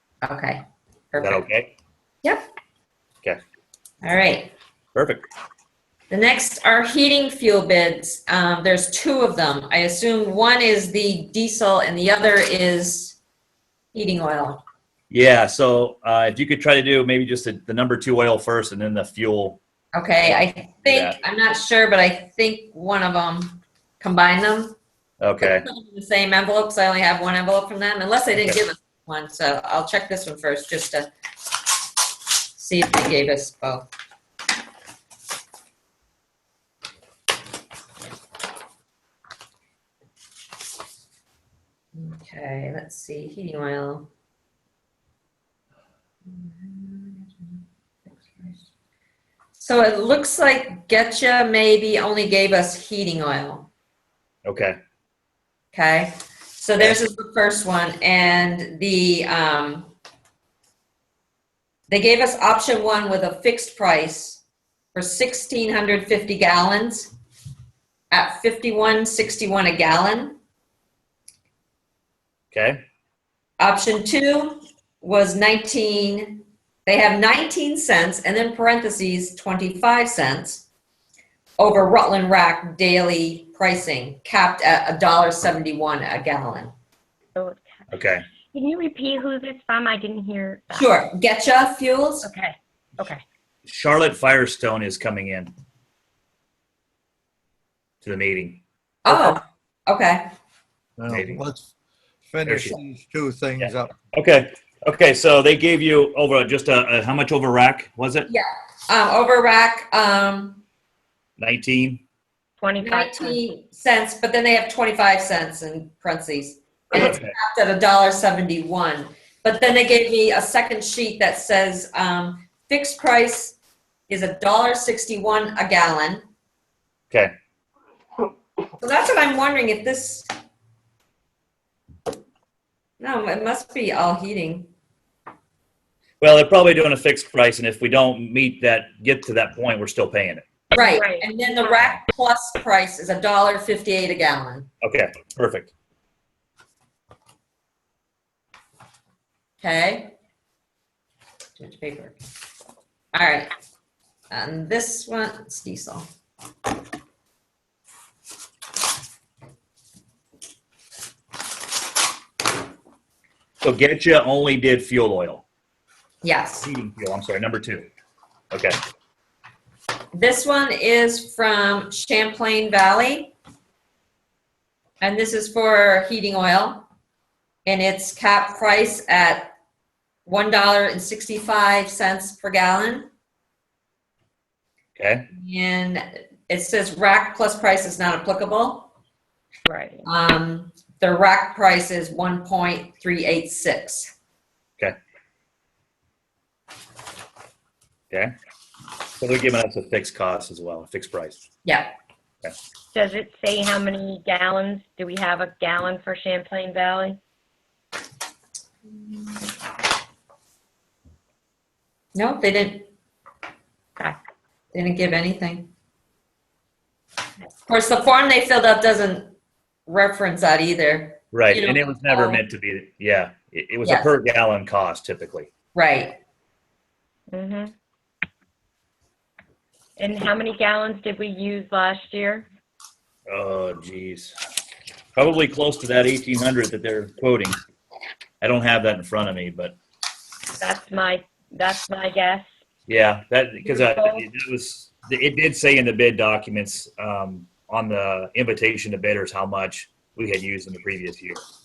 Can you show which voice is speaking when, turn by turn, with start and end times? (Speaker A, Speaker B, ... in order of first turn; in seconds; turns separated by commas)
Speaker A: 0.2-1.4, Speaker B: 1.2-1.7, Speaker A: 4.0-4.5, Speaker B: 5.0-5.2, Speaker A: 6.1-13.2, Speaker A: 13.9-14.6, Speaker B: 15.1-19.6, Speaker A: 19.9-24.8, Speaker B: 20.2-21.2, Speaker B: 25.2-25.6, Speaker A: 25.4-31.1, Speaker A: 32.6-33.9, Speaker A: 41.9-44.1, Speaker A: 46.3-47.6, Speaker A: 48.3-48.6, Speaker A: 49.6-53.7, Speaker B: 54.5-54.8, Speaker A: 55.7-59.9, Speaker A: 61.9-64.4, Speaker A: 64.9-67.1, Speaker A: 68.1-70.4, Speaker B: 72.5-72.8, Speaker A: 73.6-80.7, Speaker A: 81.6-86.7, Speaker C: 87.3-87.7, Speaker B: 87.9-88.2, Speaker C: 88.5-91.0, Speaker A: 90.7-92.3, Speaker C: 92.2-93.2, Speaker B: 93.7-95.5, Speaker B: 98.0-99.4, Speaker A: 99.0-100.2, Speaker D: 101.0-101.7, Speaker B: 101.1-101.4, Speaker D: 102.3-103.9, Speaker B: 102.5-102.8, Speaker B: 103.6-108.3, Speaker A: 108.3-110.6, Speaker B: 111.4-112.0, Speaker C: 112.6-113.4, Speaker A: 112.8-123.6, Speaker B: 116.9-117.3, Speaker A: 124.1-126.2, Speaker A: 128.8-130.3, Speaker A: 133.0-134.7, Speaker B: 136.2-140.4, Speaker C: 140.7-141.9, Speaker A: 140.8-144.7, Speaker B: 144.8-145.7, Speaker A: 149.6-150.1, Speaker A: 151.6-152.2, Speaker A: 153.1-153.5, Speaker A: 154.3-156.1, Speaker B: 163.6-165.4, Speaker A: 166.2-166.7, Speaker B: 166.6-167.9, Speaker A: 170.2-173.3, Speaker A: 175.0-176.9, Speaker A: 177.7-179.5, Speaker A: 180.3-183.1, Speaker B: 185.0-185.3, Speaker A: 185.3-188.9, Speaker C: 189.7-190.1, Speaker A: 190.1-194.1, Speaker B: 199.2-201.4, Speaker A: 201.7-201.9, Speaker C: 202.9-207.2, Speaker A: 212.2-212.9, Speaker A: 214.7-215.7, Speaker A: 217.7-219.3, Speaker A: 219.9-222.4, Speaker B: 221.3-225.5, Speaker A: 223.8-224.1, Speaker A: 225.8-226.2, Speaker C: 227.3-227.7, Speaker C: 230.0-232.5, Speaker B: 233.3-234.3, Speaker B: 235.2-237.6, Speaker B: 238.4-239.8, Speaker C: 240.6-242.5, Speaker B: 242.9-251.4, Speaker C: 243.6-244.3